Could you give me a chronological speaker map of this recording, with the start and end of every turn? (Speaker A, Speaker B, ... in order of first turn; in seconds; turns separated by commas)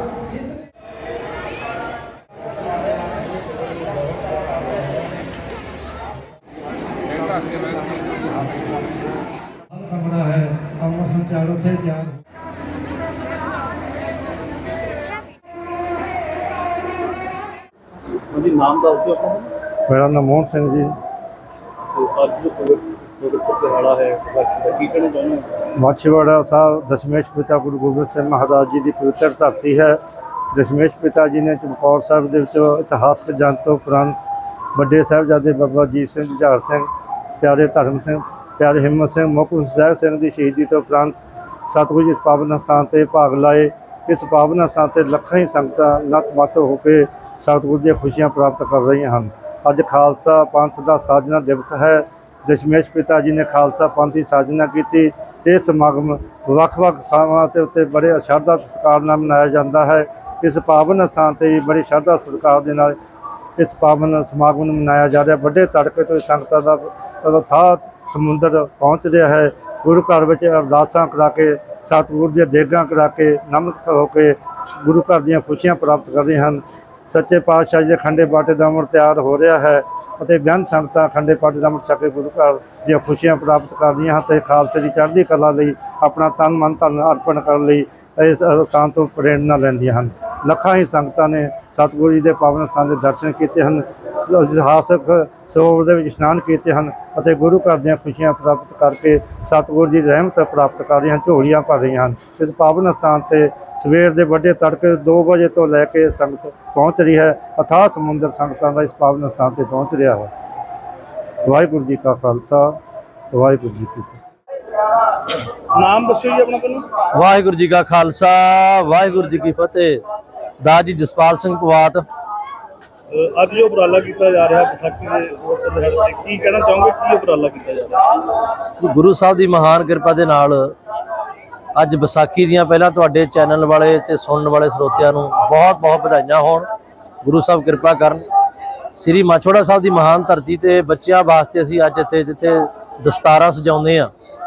Speaker A: 9.7-12.2, Speaker B: 18.3-19.5, Speaker A: 19.9-20.9, Speaker B: 21.9-25.6, Speaker A: 25.8-30.0, Speaker A: 30.5-34.2, Speaker A: 34.8-36.9, Speaker A: 37.4-41.1, Speaker A: 41.7-63.0, Speaker A: 63.6-110.3, Speaker A: 111.5-112.8, Speaker A: 113.3-114.2, Speaker B: 115.7-116.9, Speaker C: 117.1-120.0, Speaker C: 120.6-122.0, Speaker B: 123.1-128.2, Speaker C: 128.8-130.7, Speaker C: 131.8-136.7, Speaker C: 137.2-138.2, Speaker C: 138.9-144.1